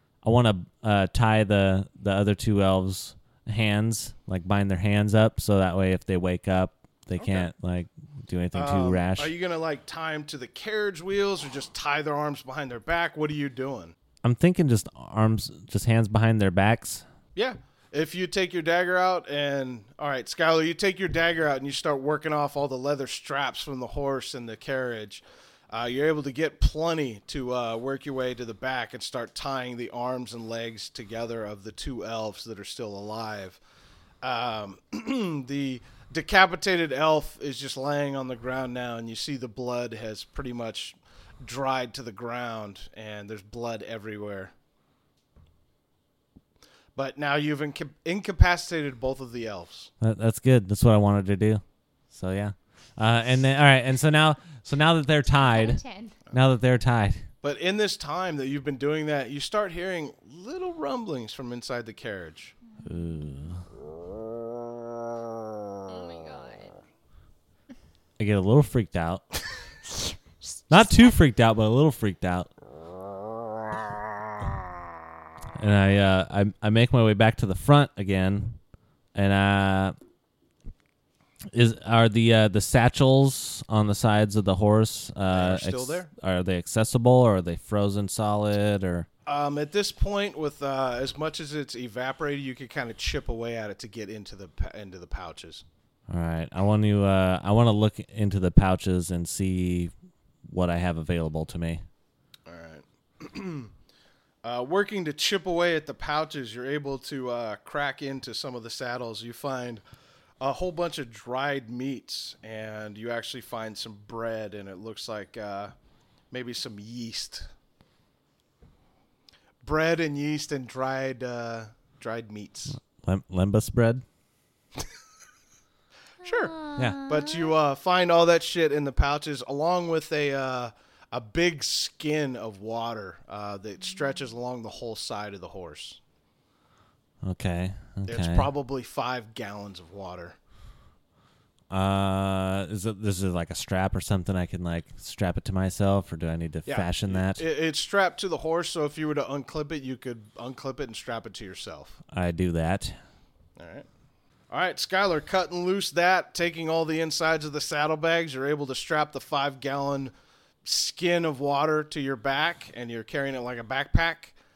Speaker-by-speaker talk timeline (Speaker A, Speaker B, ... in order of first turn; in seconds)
Speaker A: 0.2-9.3, 14.2-17.0, 50.0-55.8, 56.3-57.2, 62.8-63.7, 68.2-69.2, 70.7-72.5, 75.5-78.6, 79.1-79.9, 81.5-89.1, 96.1-99.9, 100.5-101.8, 122.7-124.0, 137.2-138.5, 141.7-147.4, 152.1-153.0
Speaker B: 7.2-7.5, 8.5-13.9, 17.3-33.6, 34.2-44.5, 46.9-49.9, 57.4-62.5, 85.3-86.1, 89.2-95.6, 102.5-103.7, 104.4-109.8, 110.4-115.7, 116.3-117.5, 119.6-122.8, 126.2-136.0, 138.1-140.3, 146.7-152.0, 153.6-153.9, 154.5-160.1, 160.6-164.3
Speaker C: 55.3-56.2, 65.9-66.7, 70.6-71.1, 126.2-127.5